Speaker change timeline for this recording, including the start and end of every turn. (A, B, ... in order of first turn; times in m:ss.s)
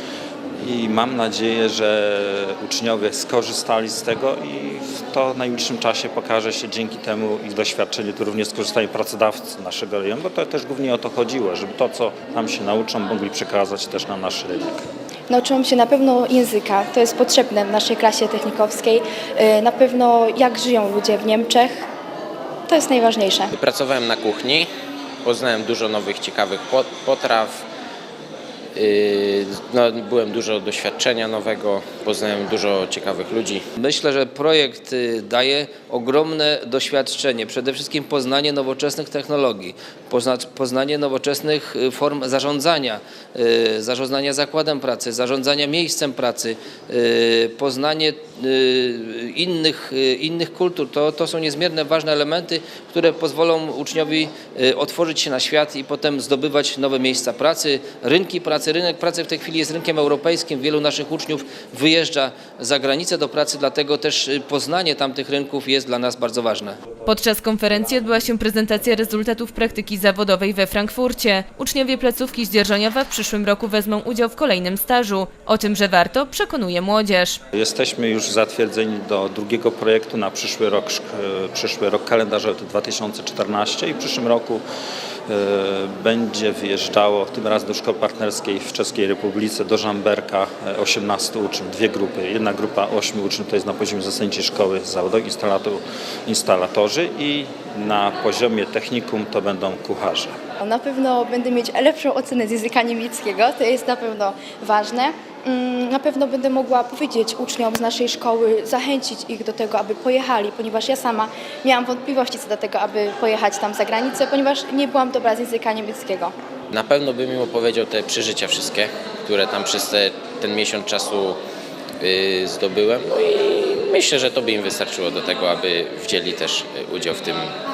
0:00.6-0:14.8 A
0:15.3-0:21.8 B
0:22.7-0:23.5 B
0:23.5-0:24.7 C
0:25.2-0:27.6 C
0:28.7-0:33.6 C
0:33.8-1:06.8 D
1:07.0-1:17.4 E
1:17.5-1:24.6 A
1:25.3-1:40.3 A
1:40.6-1:56.3 B
1:56.7-2:01.4 C
2:02.0-2:07.5 C